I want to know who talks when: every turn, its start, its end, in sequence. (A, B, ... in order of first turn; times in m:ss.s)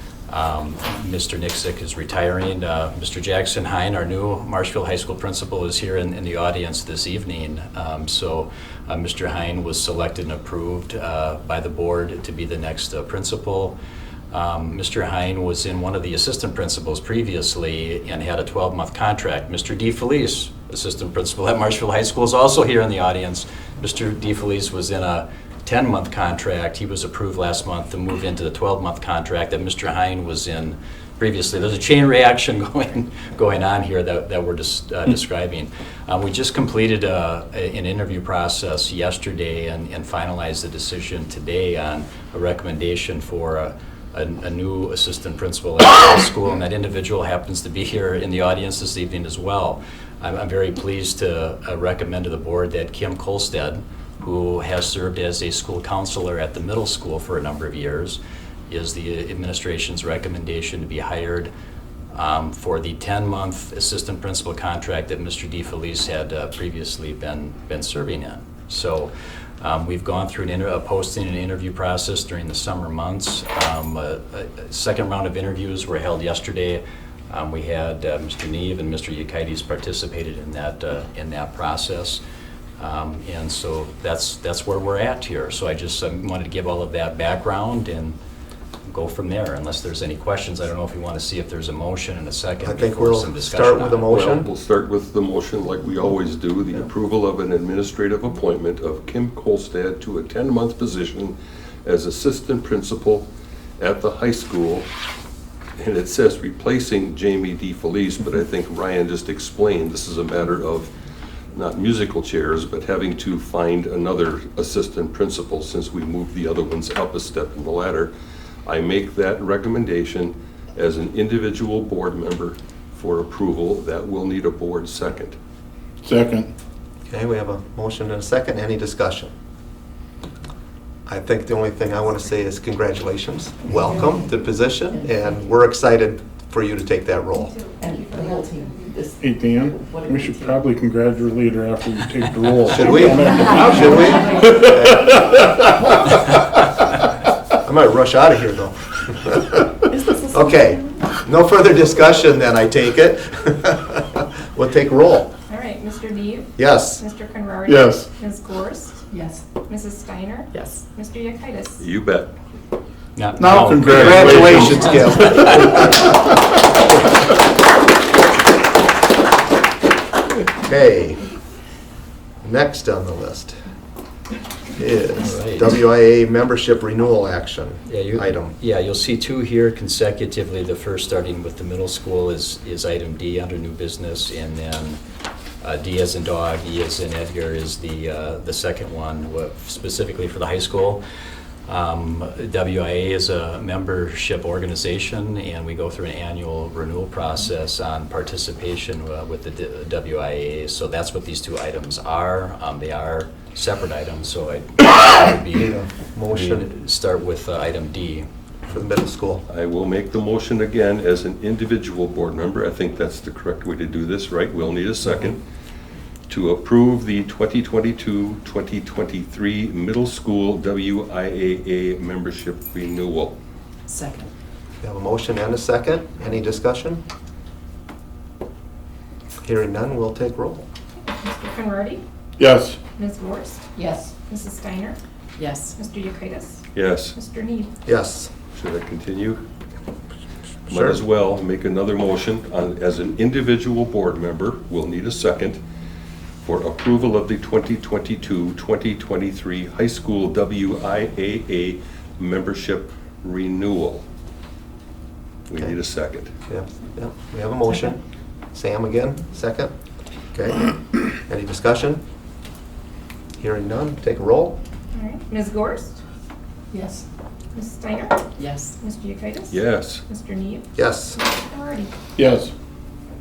0:00.3-0:13.8 A
0:14.3-1:01.5 A
1:02.1-1:22.2 A
1:22.8-1:28.2 A
1:28.9-1:34.2 A
1:32.6-1:34.5 B
1:34.1-1:43.3 C
1:43.8-1:44.9 C
1:45.8-1:50.9 C
1:51.5-1:58.1 C
1:58.6-2:05.4 C
2:06.0-2:06.5 D
2:07.1-2:09.3 B
2:11.0-2:17.5 B
2:13.7-2:14.3 E
2:14.9-2:15.5 E
2:17.4-2:18.8 F
2:17.8-2:20.7 E
2:19.2-2:26.1 D
2:22.7-2:25.4 B
2:23.2-2:24.9 E
2:27.6-2:35.3 B
2:29.9-2:31.0 E
2:35.5-2:39.0 F
2:36.6-2:37.0 B
2:37.6-2:38.1 D
2:39.1-2:39.4 E
2:39.6-2:41.8 F
2:40.5-2:40.8 E
2:41.8-2:42.3 C
2:43.2-2:44.9 A
2:43.4-2:46.3 D
2:43.9-2:46.1 B
2:44.7-2:45.1 E
2:50.6-2:51.3 B
2:52.4-2:53.6 B
2:54.8-2:58.6 B
2:55.2-2:55.7 A
2:57.8-3:05.0 A
3:05.6-3:11.0 A
3:11.7-3:25.7 A
3:25.5-3:26.7 B
3:26.3-3:28.3 A
3:28.7-3:29.4 B
3:29.5-3:35.4 C
3:36.3-3:43.3 C
3:43.9-3:44.3 E
3:44.8-3:47.0 B
3:49.4-3:50.6 B
3:51.1-3:52.0 F
3:52.4-3:52.8 D
3:52.9-3:53.6 F
3:53.8-3:54.1 E
3:54.2-3:55.0 F
3:55.4-3:55.7 E
3:55.8-3:56.6 F
3:56.7-3:57.1 C
3:57.1-3:57.7 F
3:57.8-3:58.3 B
3:58.5-3:59.4 C
4:00.7-4:05.6 C
4:00.7-4:01.0 B
4:06.4-4:14.0 C
4:15.5-4:16.3 C
4:16.5-4:18.0 B
4:18.5-4:19.7 B
4:20.3-4:22.0 B
4:23.4-4:24.6 B
4:24.9-4:26.0 F
4:26.7-4:27.0 E
4:27.5-4:28.2 F
4:28.4-4:28.7 E
4:28.8-4:31.9 F
4:29.5-4:30.0 C
4:30.7-4:31.2 B
4:32.2-4:32.5 D